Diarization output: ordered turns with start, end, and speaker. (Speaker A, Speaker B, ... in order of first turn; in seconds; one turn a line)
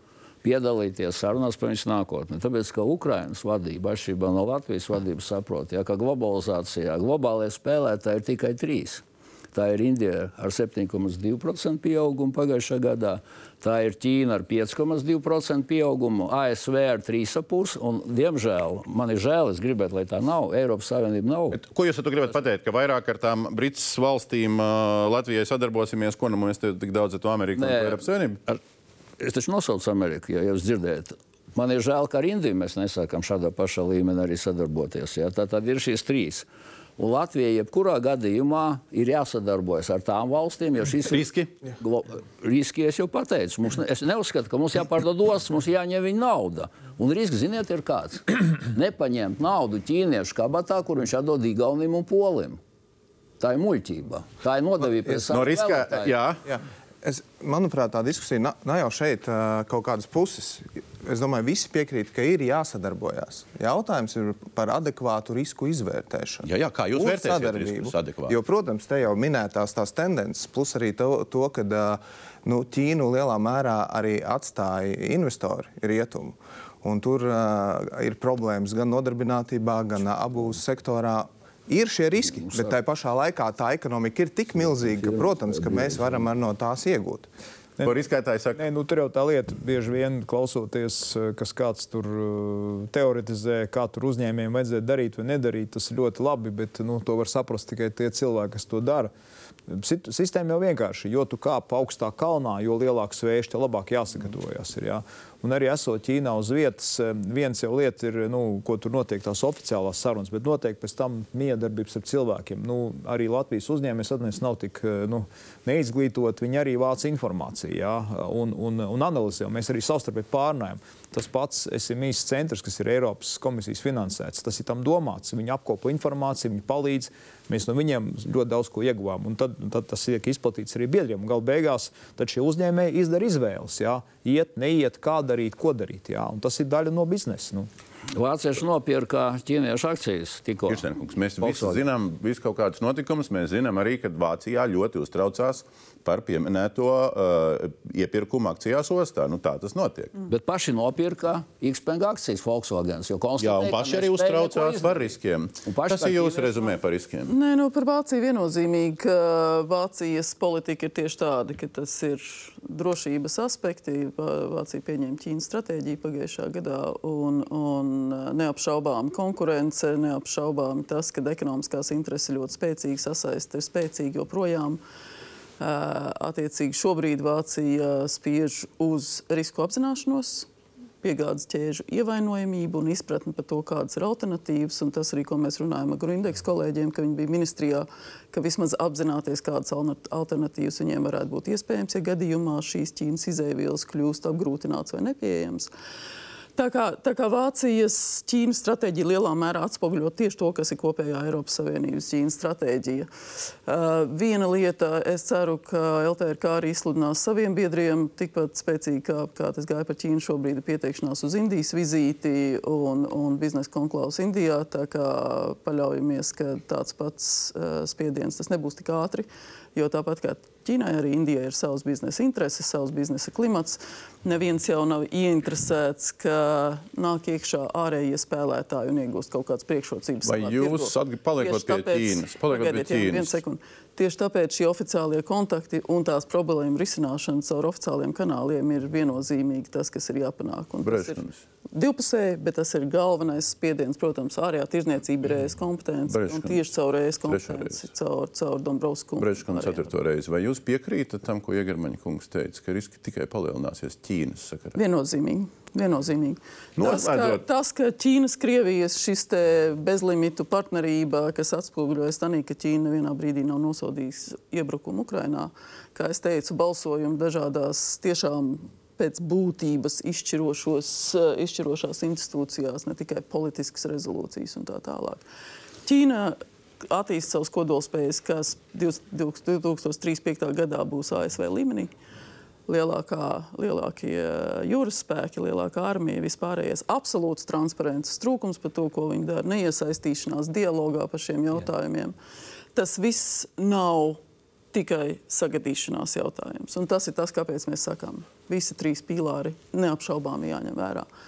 Speaker A: 0.4-21.6
Speaker B: 21.5-28.4
Speaker A: 27.5-28.6
Speaker A: 29.2-36.5
Speaker A: 37.0-41.3
Speaker B: 41.1-41.6
Speaker A: 41.8-52.6
Speaker A: 53.4-56.2
Speaker B: 55.3-56.4
Speaker C: 56.5-87.3
Speaker B: 66.4-68.3
Speaker A: 82.3-82.7
Speaker A: 84.9-86.1
Speaker B: 87.8-88.6
Speaker D: 88.5-99.1
Speaker D: 99.7-137.7
Speaker A: 138.1-141.8
Speaker B: 140.7-150.1
Speaker A: 150.3-155.1
Speaker B: 153.4-157.3
Speaker A: 155.6-156.7
Speaker E: 157.3-174.8
Speaker E: 175.6-180.5
Speaker E: 181.0-195.7
Speaker E: 196.6-203.1
Speaker E: 203.7-241.2
Speaker B: 230.2-233.4
Speaker B: 240.8-241.4
Speaker E: 241.7-249.9
Speaker B: 246.1-246.6
Speaker B: 247.2-247.9
Speaker B: 249.2-254.8
Speaker E: 254.7-275.2
Speaker B: 256.8-257.4
Speaker E: 275.8-281.9
Speaker E: 282.7-292.1
Speaker E: 292.7-294.2
Speaker E: 294.7-301.1